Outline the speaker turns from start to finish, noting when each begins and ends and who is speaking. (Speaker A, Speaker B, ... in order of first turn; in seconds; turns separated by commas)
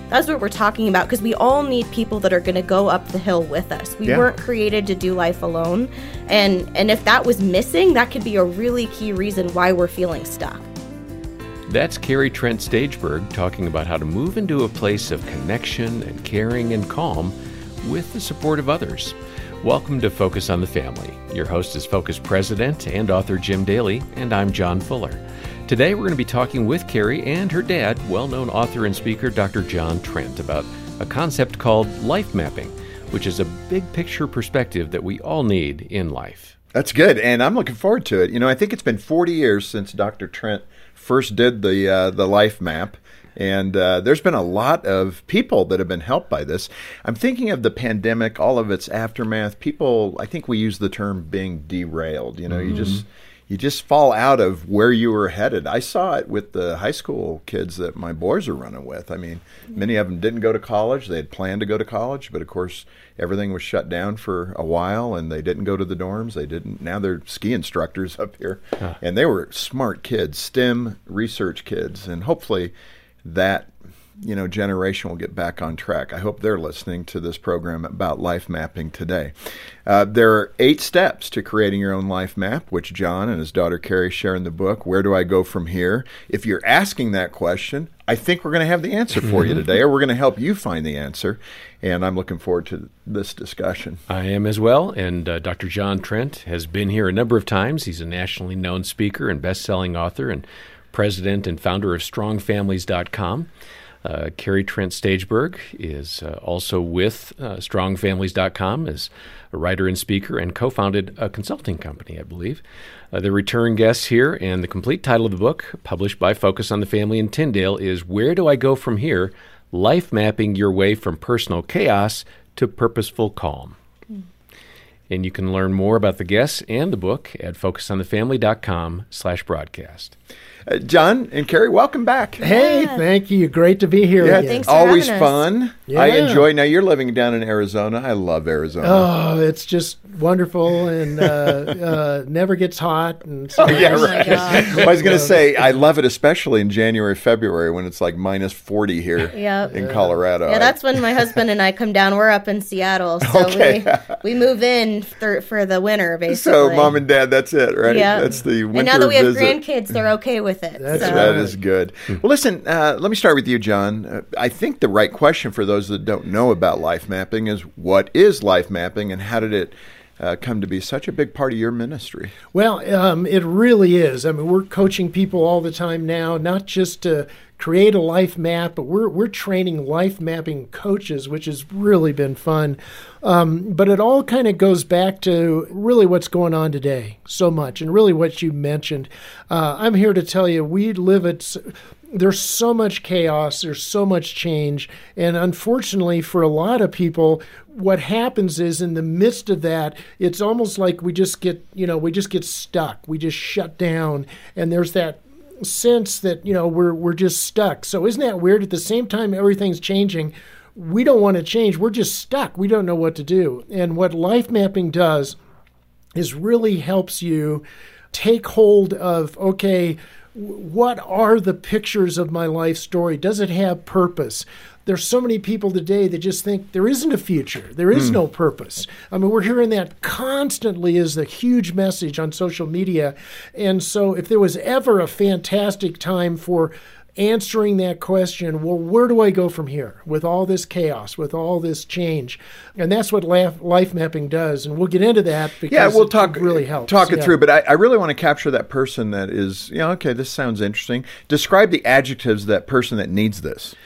Speaker A: 0.1-10.7, Speaker B: 11.7-36.5, Speaker C: 36.7-72.7, Speaker C: 73.2-79.3, Speaker C: 79.8-94.0, Speaker B: 94.1-103.5, Speaker B: 104.0-123.8, Speaker B: 125.1-130.2, Speaker C: 130.7-132.4, Speaker A: 132.4-133.1, Speaker D: 132.4-134.7, Speaker C: 134.2-139.1, Speaker A: 134.3-135.4, Speaker D: 135.9-136.5, Speaker D: 138.8-145.4, Speaker C: 141.2-141.6, Speaker C: 143.6-151.2, Speaker A: 143.6-144.9, Speaker A: 149.3-149.8, Speaker D: 149.7-150.1, Speaker A: 150.5-156.9, Speaker C: 153.2-154.1, Speaker C: 156.3-159.6, Speaker A: 157.9-161.4, Speaker D: 160.8-161.6, Speaker C: 160.9-172.3, Speaker D: 172.5-215.4, Speaker D: 216.2-247.3, Speaker C: 245.7-253.8